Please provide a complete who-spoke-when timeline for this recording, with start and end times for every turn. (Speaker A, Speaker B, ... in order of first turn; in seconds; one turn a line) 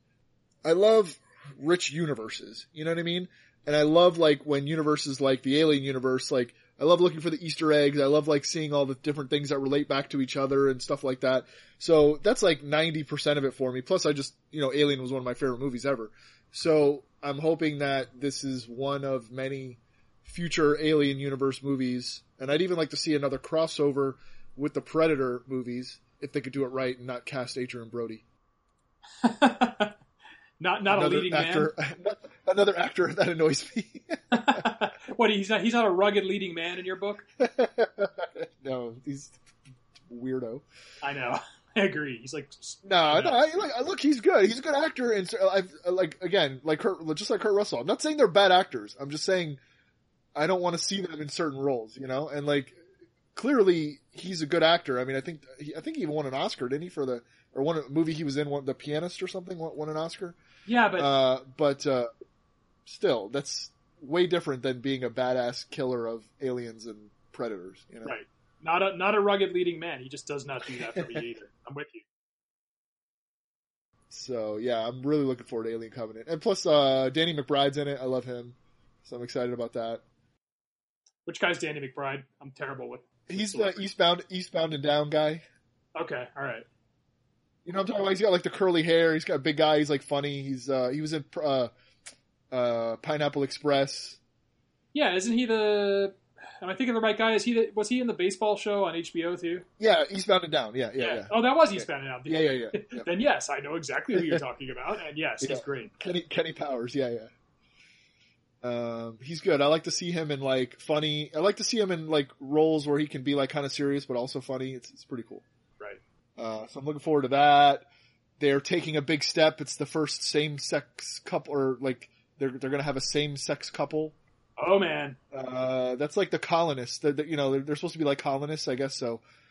Speaker A: 0.6-28.2
Speaker B: 29.2-30.0
Speaker B: 30.6-31.7
Speaker A: 30.9-34.6
Speaker B: 34.3-37.2
Speaker A: 37.4-39.4
Speaker A: 40.1-40.6
Speaker B: 41.0-43.4
Speaker A: 42.8-49.6
Speaker A: 50.4-52.8
Speaker A: 53.3-60.4
Speaker B: 60.7-61.1
Speaker A: 61.0-62.1
Speaker A: 62.9-68.2
Speaker B: 68.0-72.0
Speaker A: 70.9-71.2
Speaker A: 74.1-80.0
Speaker B: 81.2-83.9
Speaker A: 83.3-85.4
Speaker B: 86.0-86.7
Speaker A: 87.7-91.7
Speaker A: 92.5-94.2
Speaker B: 94.9-99.7
Speaker A: 99.8-103.1
Speaker B: 101.0-105.9
Speaker A: 104.1-104.4
Speaker A: 105.4-107.3
Speaker A: 108.6-115.4
Speaker A: 116.4-117.9
Speaker A: 118.4-124.2
Speaker B: 124.6-125.2
Speaker A: 125.3-129.2